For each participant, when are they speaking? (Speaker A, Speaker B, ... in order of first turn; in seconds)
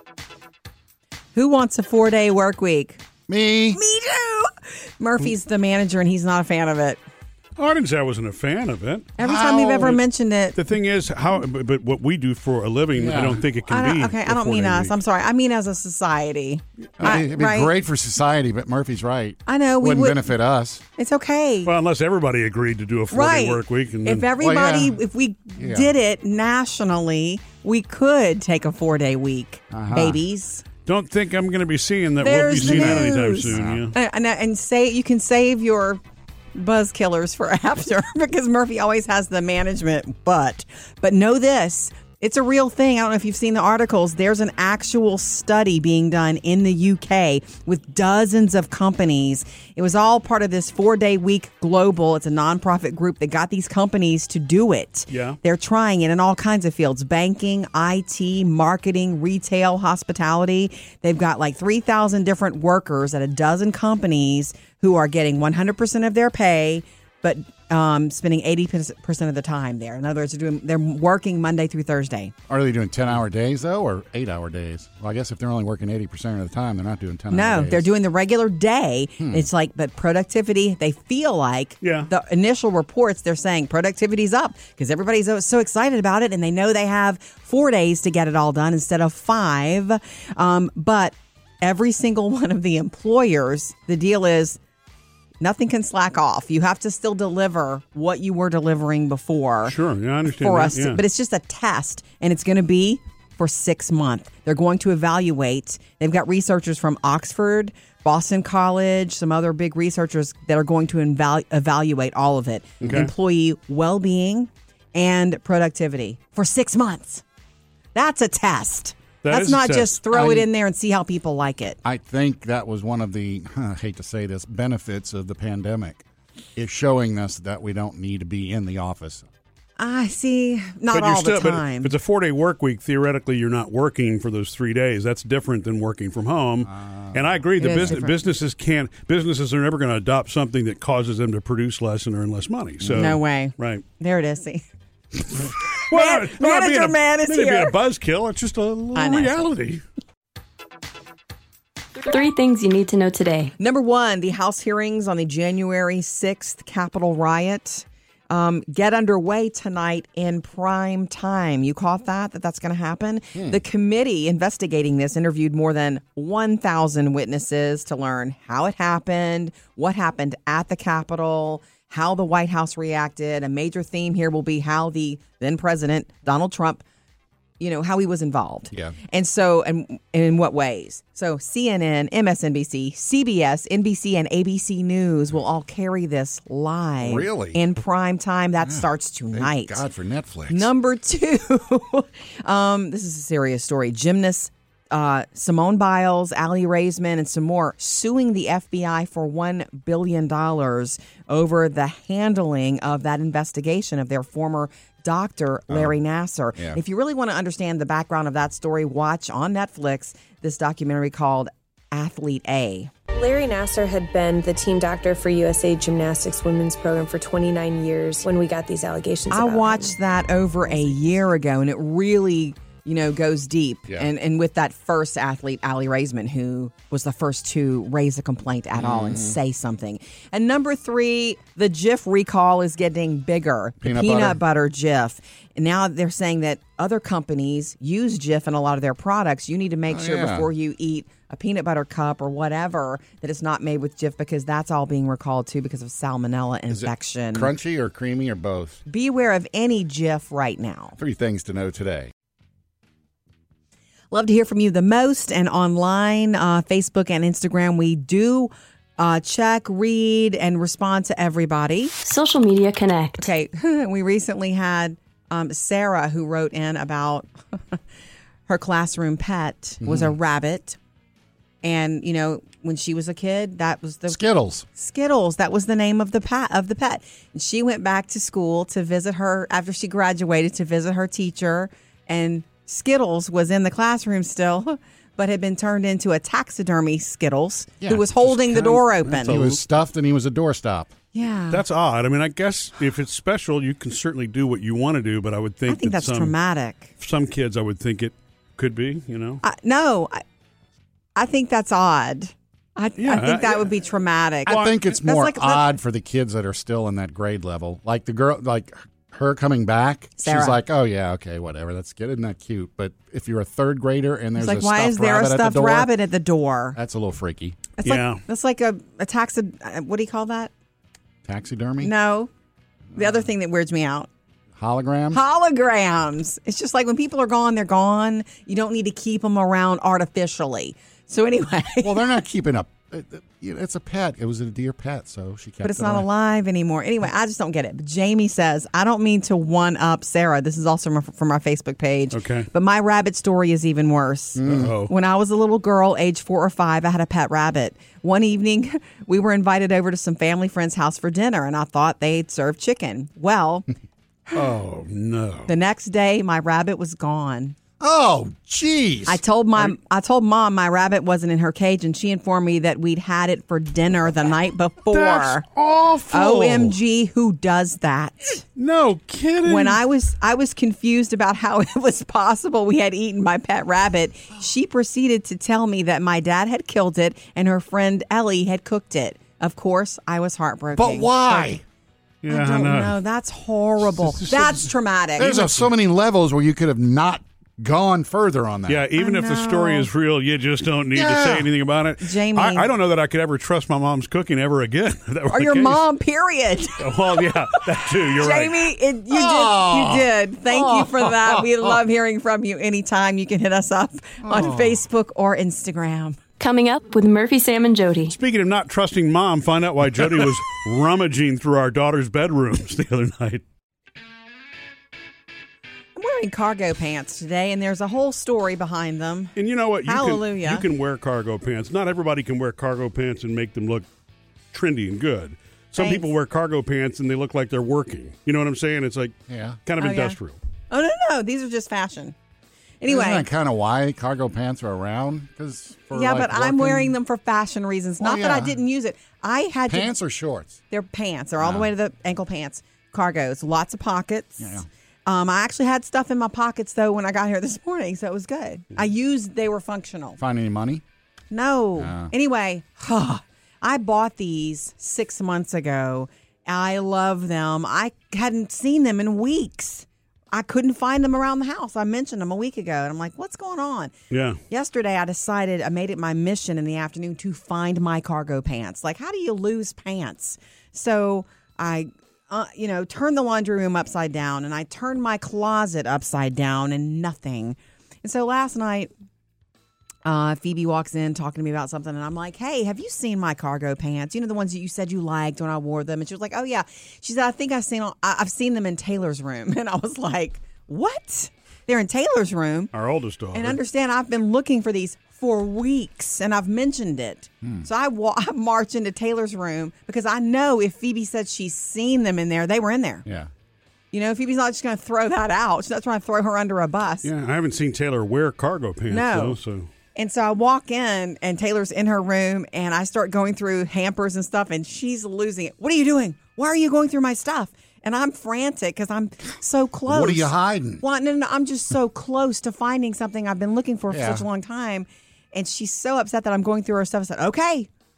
Speaker A: 1.4-3.0, 3.7-7.0, 9.2-10.6, 13.7-17.7, 19.5-20.3, 21.0-21.7, 23.1-30.6, 32.2-36.0, 36.5-72.3, 77.3-94.6, 95.4-99.8, 100.3-117.2, 118.0-121.8, 129.8-131.9, 137.6-138.2, 142.9-144.7, 145.9-147.8, 148.9-149.4, 153.6-176.8, 177.6-189.8, 190.5-212.9, 219.3-247.5, 248.9-251.0, 254.1-261.9, 263.2-267.8, 268.5-270.8, 271.6-274.2, 274.8-289.4, 291.1-291.6, 295.7-296.9, 299.4-300.2, 301.2-305.7, 310.2-310.6, 314.4-316.8, 317.8-320.5, 321.8-322.3, 322.9-324.1, 325.1-332.1, 335.6-353.7, 355.5-357.6, 359.1-365.4, 366.1-368.4, 369.4-381.5, 382.3-385.6, 388.9-389.9, 392.0-392.7, 395.3-406.2, 416.0-420.6, 425.8-426.1, 429.8-430.2, 430.7-432.2, 432.8-433.3, 435.9-439.9, 440.7-450.2, 451.3-463.9, 464.5-478.9, 480.1-492.7, 493.3-503.0, 503.9-507.1, 508.9-509.4, 509.9-527.7
Speaker B: 3.3-3.8, 9.2-10.0, 12.9-13.4, 17.0-20.8, 24.4-25.0, 25.6-25.9, 29.7-30.2, 32.6-33.9, 72.5-77.9, 79.2-79.5, 112.8-113.1, 120.1-120.5, 121.8-126.0, 126.6-129.2, 136.6-138.0, 142.8-143.1, 163.3-163.6, 187.0-187.6, 188.6-190.7, 205.7-205.9, 228.8-229.4, 233.8-234.4, 239.9-240.5, 246.7-248.8, 251.0-252.1, 269.8-270.1, 274.1-274.7, 287.8-290.9, 304.5-315.9, 316.8-317.6, 321.2-321.9, 324.6-325.2, 331.8-336.1, 344.4-344.7, 357.8-359.2, 380.8-381.6, 385.2-388.9, 390.9-391.5, 399.1-401.7, 404.2-404.8, 429.3-429.6, 432.9-437.0, 438.0-438.6, 439.7-440.6, 441.4-441.7, 444.4-444.7, 450.2-450.8, 451.8-452.1, 503.1-503.3, 519.9-520.8, 523.9-524.2
Speaker C: 7.6-9.1, 10.5-14.9, 21.6-24.3, 30.9-33.9, 55.1-55.4, 81.8-82.1, 99.7-101.0, 112.8-113.1, 119.2-120.0, 130.9-143.8, 145.9-149.8, 289.1-289.6, 291.5-296.4, 297.0-299.4, 303.0-303.7, 304.5-304.7, 317.9-318.2, 342.1-342.5, 344.5-344.9, 354.3-355.6, 364.9-366.8, 368.6-369.8, 382.2-383.0, 384.0-384.6, 388.7-395.8, 396.8-398.6, 408.1-413.4, 419.4-423.9, 424.5-430.4, 464.1-464.4, 492.7-493.6, 507.0-509.7
Speaker D: 152.1-153.5, 262.0-263.3, 406.4-408.2
Speaker E: 213.1-219.9